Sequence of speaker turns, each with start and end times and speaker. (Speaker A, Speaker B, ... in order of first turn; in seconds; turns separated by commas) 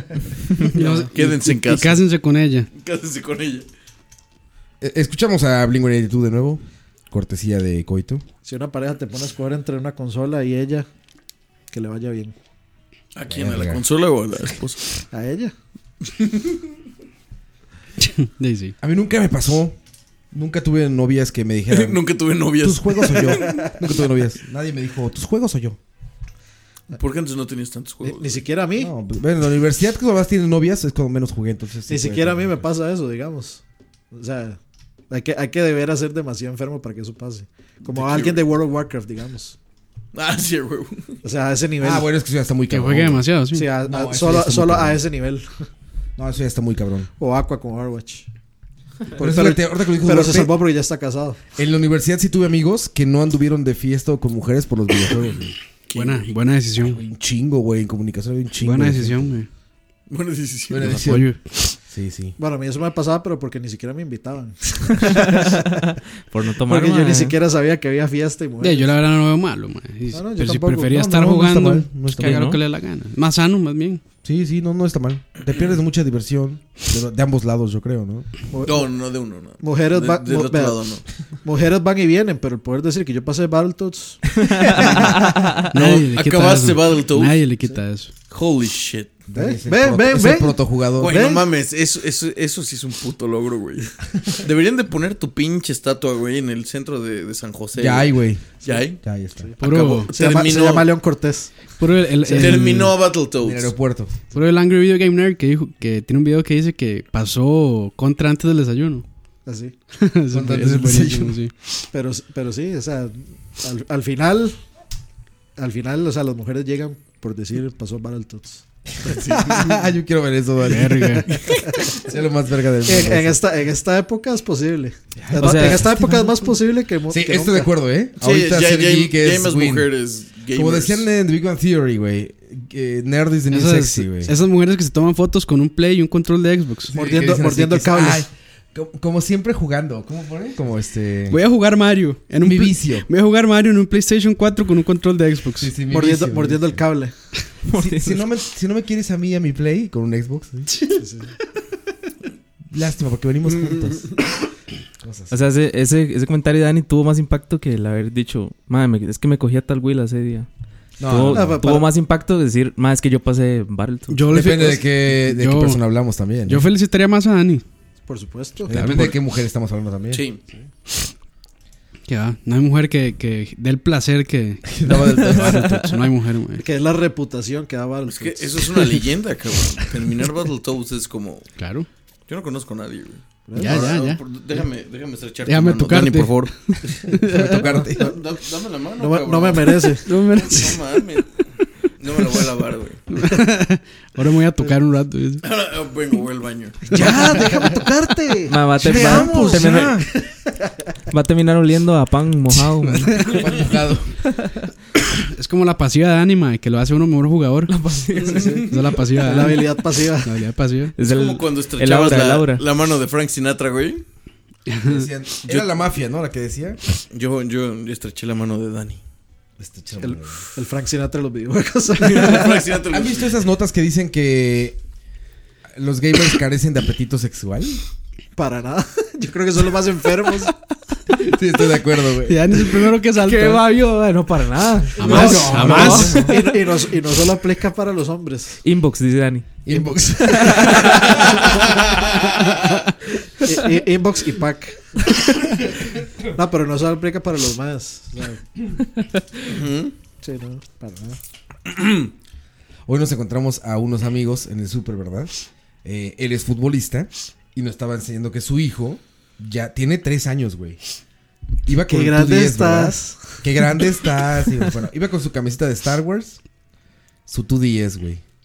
Speaker A: 0.7-2.7, Speaker B: 0.8-1.1, Speaker C: 1.1-2.0, Speaker C: 2.7-3.6, Speaker D: 4.8-8.2, Speaker B: 8.4-10.9, Speaker B: 11.7-12.3, Speaker C: 13.1-14.8, Speaker D: 13.3-13.8, Speaker B: 15.1-15.5, Speaker C: 16.1-16.5, Speaker A: 18.0-18.7, Speaker D: 18.8-19.8, Speaker D: 20.3-22.0, Speaker C: 21.7-23.7, Speaker D: 22.6-25.8, Speaker C: 26.9-28.4, Speaker B: 28.0-28.9, Speaker D: 28.8-32.6, Speaker B: 31.9-34.6, Speaker B: 35.1-39.5, Speaker C: 37.8-38.4, Speaker C: 40.1-41.2, Speaker B: 41.2-42.0, Speaker D: 41.8-43.3, Speaker A: 42.7-43.7, Speaker B: 43.5-45.5, Speaker D: 43.8-45.0, Speaker D: 46.2-47.1, Speaker B: 47.2-48.3, Speaker B: 49.1-51.4, Speaker D: 49.2-50.5, Speaker D: 51.5-55.5, Speaker C: 55.9-56.3, Speaker A: 55.9-57.0, Speaker D: 56.8-59.3, Speaker A: 58.6-59.5, Speaker C: 60.1-61.0, Speaker D: 60.7-62.4, Speaker A: 60.9-61.4, Speaker B: 62.4-65.5, Speaker E: 65.2-67.3, Speaker B: 66.7-69.0, Speaker A: 68.6-74.0, Speaker B: 70.1-70.9, Speaker D: 70.8-72.5, Speaker E: 72.2-72.6, Speaker D: 74.2-78.3, Speaker B: 78.5-78.9, Speaker C: 78.6-81.0, Speaker B: 79.6-80.8, Speaker B: 81.4-84.9, Speaker A: 85.7-88.1, Speaker C: 85.7-87.4, Speaker C: 88.3-89.1, Speaker D: 89.3-91.2, Speaker B: 89.3-91.4, Speaker C: 91.0-99.0, Speaker D: 97.8-99.5, Speaker C: 99.6-100.9, Speaker A: 99.6-100.1, Speaker B: 100.1-101.7, Speaker A: 101.8-103.0, Speaker B: 102.2-102.6, Speaker C: 102.3-103.7, Speaker D: 103.4-104.2, Speaker A: 104.3-109.0, Speaker B: 109.5-109.7, Speaker A: 110.0-111.5, Speaker D: 110.3-111.4, Speaker B: 111.9-114.5, Speaker B: 115.6-119.6, Speaker D: 119.1-121.3, Speaker A: 120.6-121.3, Speaker C: 121.3-121.6, Speaker D: 121.9-123.4, Speaker B: 122.8-127.7, Speaker D: 125.2-125.8, Speaker E: 125.4-125.9, Speaker D: 127.1-129.9, Speaker C: 128.2-131.0, Speaker D: 130.5-134.3, Speaker A: 133.5-136.9, Speaker D: 136.9-141.4, Speaker B: 136.9-138.2, Speaker A: 141.3-145.7, Speaker D: 142.4-143.1, Speaker D: 145.6-146.8, Speaker B: 145.9-147.1, Speaker E: 147.6-148.2, Speaker D: 147.8-150.7, Speaker B: 150.9-151.3, Speaker D: 152.7-154.1, Speaker C: 153.5-154.0, Speaker D: 155.0-155.4, Speaker E: 155.3-160.5, Speaker D: 161.0-161.6, Speaker E: 161.0-164.4, Speaker B: 161.3-161.9, Speaker A: 164.1-165.8, Speaker D: 164.3-166.7, Speaker A: 166.5-167.6, Speaker B: 168.1-168.7, Speaker D: 168.7-170.2, Speaker A: 168.7-169.2, Speaker C: 170.1-170.4, Speaker A: 172.1-174.8, Speaker D: 174.6-176.0, Speaker A: 175.4-176.6, Speaker B: 176.6-178.6, Speaker C: 178.1-181.5, Speaker A: 181.6-181.9, Speaker C: 182.3-186.8, Speaker B: 183.5-183.9, Speaker A: 183.6-184.2, Speaker A: 185.4-187.8, Speaker D: 187.2-188.1, Speaker C: 188.0-191.3, Speaker B: 189.0-190.1, Speaker A: 190.0-191.0, Speaker C: 191.9-193.0, Speaker A: 193.1-195.4, Speaker C: 195.4-196.8, Speaker D: 196.9-198.1, Speaker B: 196.9-199.6, Speaker E: 198.5-200.1, Speaker D: 198.7-200.1, Speaker E: 201.1-203.3, Speaker D: 203.1-204.2, Speaker A: 205.3-207.7, Speaker E: 207.7-208.7, Speaker C: 208.2-208.9, Speaker A: 208.7-210.9, Speaker B: 209.2-210.3, Speaker E: 210.9-212.6, Speaker C: 211.0-214.0, Speaker A: 214.7-215.0, Speaker D: 214.8-216.8, Speaker C: 217.1-219.0, Speaker D: 219.6-220.4, Speaker B: 220.0-222.6, Speaker C: 222.0-223.4, Speaker D: 222.9-224.8, Speaker D: 225.7-227.8, Speaker B: 228.3-230.5, Speaker D: 231.2-232.7, Speaker A: 232.2-233.7, Speaker E: 233.2-236.4, Speaker A: 235.0-236.3, Speaker B: 235.1-238.6, Speaker D: 235.1-236.3, Speaker E: 238.6-241.2, Speaker D: 239.7-241.6, Speaker B: 243.4-244.9, Speaker B: 246.3-248.4, Speaker C: 249.5-249.9, Speaker B: 250.2-251.2, Speaker C: 251.7-252.1, Speaker D: 252.8-260.8, Speaker D: 261.6-266.4, Speaker B: 261.9-263.4, Speaker D: 267.3-268.2